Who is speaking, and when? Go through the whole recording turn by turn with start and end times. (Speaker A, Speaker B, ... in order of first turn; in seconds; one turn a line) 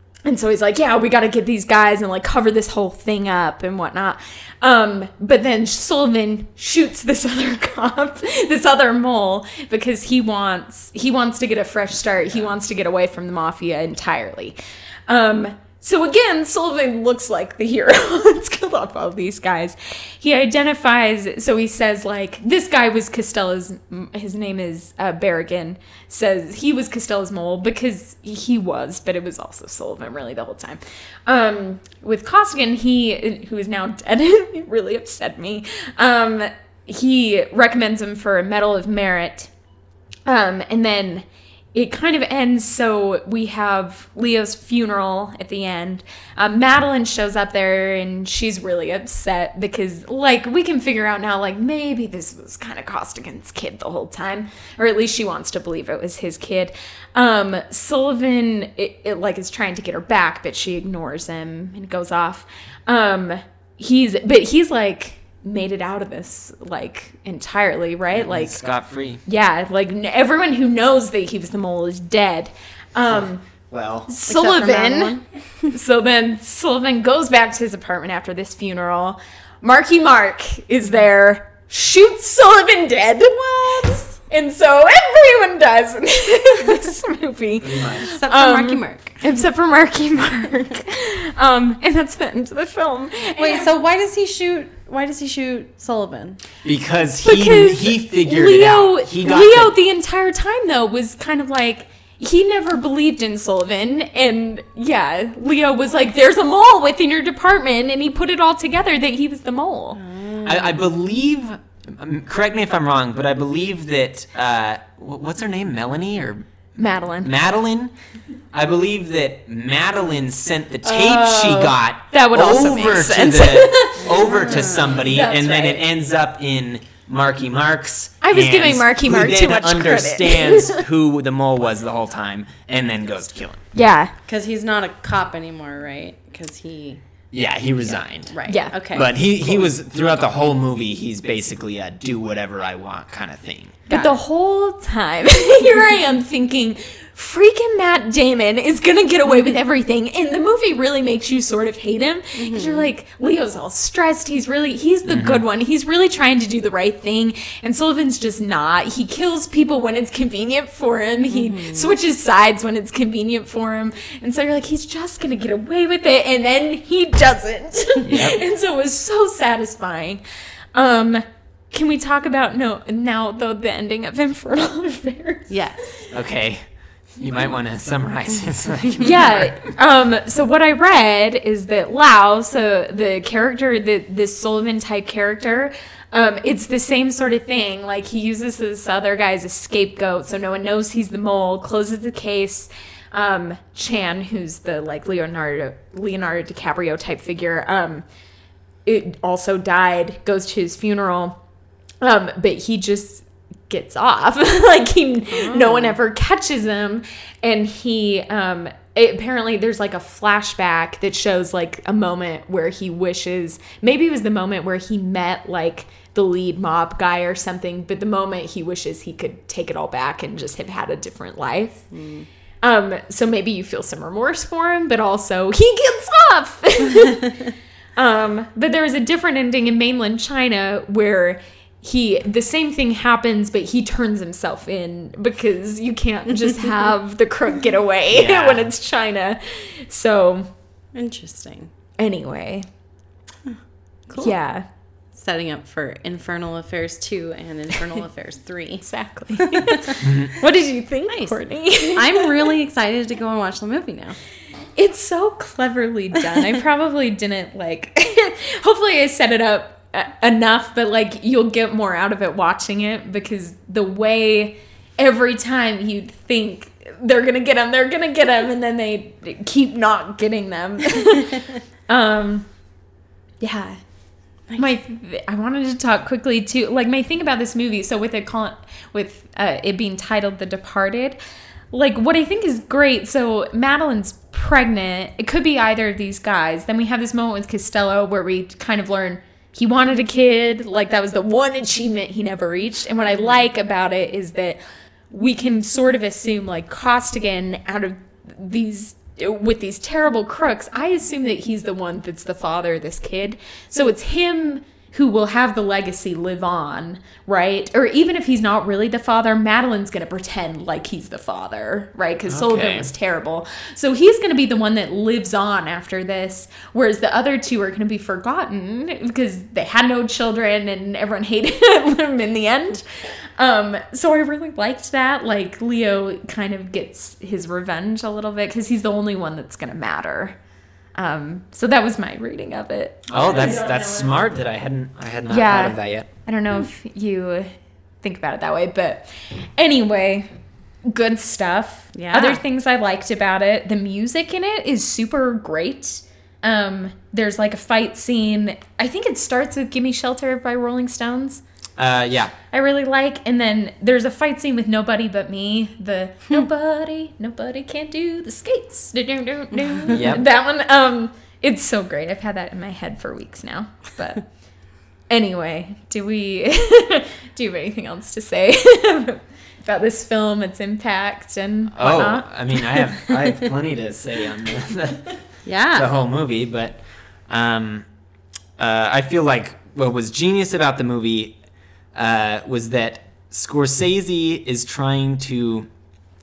Speaker A: 0.2-14.6
Speaker A: 15.1-39.5
Speaker A: 40.2-68.6
Speaker B: 68.1-69.2
Speaker A: 69.2-73.5
Speaker B: 73.7-74.1
Speaker A: 74.1-93.7
Speaker C: 74.3-75.2
Speaker B: 87.6-88.1
Speaker C: 88.2-89.2
Speaker C: 93.4-96.4
Speaker B: 96.6-99.7
Speaker A: 97.2-110.0
Speaker C: 110.0-110.8
Speaker B: 110.4-116.4
Speaker A: 116.8-117.3
Speaker B: 117.2-117.9
Speaker B: 118.5-133.6
Speaker C: 120.9-121.7
Speaker A: 122.1-125.8
Speaker C: 124.0-125.0
Speaker A: 128.2-130.8
Speaker A: 133.7-134.1
Speaker C: 134.3-137.0
Speaker B: 137.3-143.8
Speaker C: 137.8-139.7
Speaker A: 138.5-138.7
Speaker C: 143.9-144.2
Speaker A: 143.9-170.2
Speaker C: 152.4-152.9
Speaker B: 155.1-155.4
Speaker C: 161.3-161.9
Speaker B: 168.0-168.4
Speaker A: 170.7-175.9
Speaker C: 175.5-176.0
Speaker B: 176.1-176.6
Speaker B: 177.2-179.6
Speaker A: 179.0-198.0
Speaker A: 198.8-201.4
Speaker A: 202.0-221.9
Speaker C: 205.3-205.9
Speaker C: 221.9-222.3
Speaker A: 222.6-227.4
Speaker A: 228.0-240.5
Speaker B: 238.1-238.7
Speaker C: 240.9-241.7
Speaker A: 242.0-242.7
Speaker C: 243.4-244.3
Speaker A: 244.1-244.7
Speaker C: 245.1-248.8
Speaker A: 248.8-252.5
Speaker C: 249.4-249.9
Speaker B: 250.0-250.3
Speaker C: 251.1-254.2
Speaker A: 254.8-272.5
Speaker A: 273.4-273.8
Speaker A: 274.5-281.2
Speaker A: 281.7-322.8
Speaker B: 312.3-312.9
Speaker A: 323.4-330.4
Speaker A: 331.0-334.1
Speaker B: 333.1-336.1
Speaker A: 335.3-337.5
Speaker A: 338.0-340.3
Speaker A: 340.9-351.4
Speaker C: 341.9-342.4
Speaker B: 351.8-352.3
Speaker A: 352.5-364.3
Speaker B: 359.9-360.2
Speaker A: 365.1-373.1
Speaker B: 371.7-375.2
Speaker C: 375.4-375.9
Speaker B: 375.7-377.9
Speaker B: 378.6-381.4
Speaker B: 381.9-385.7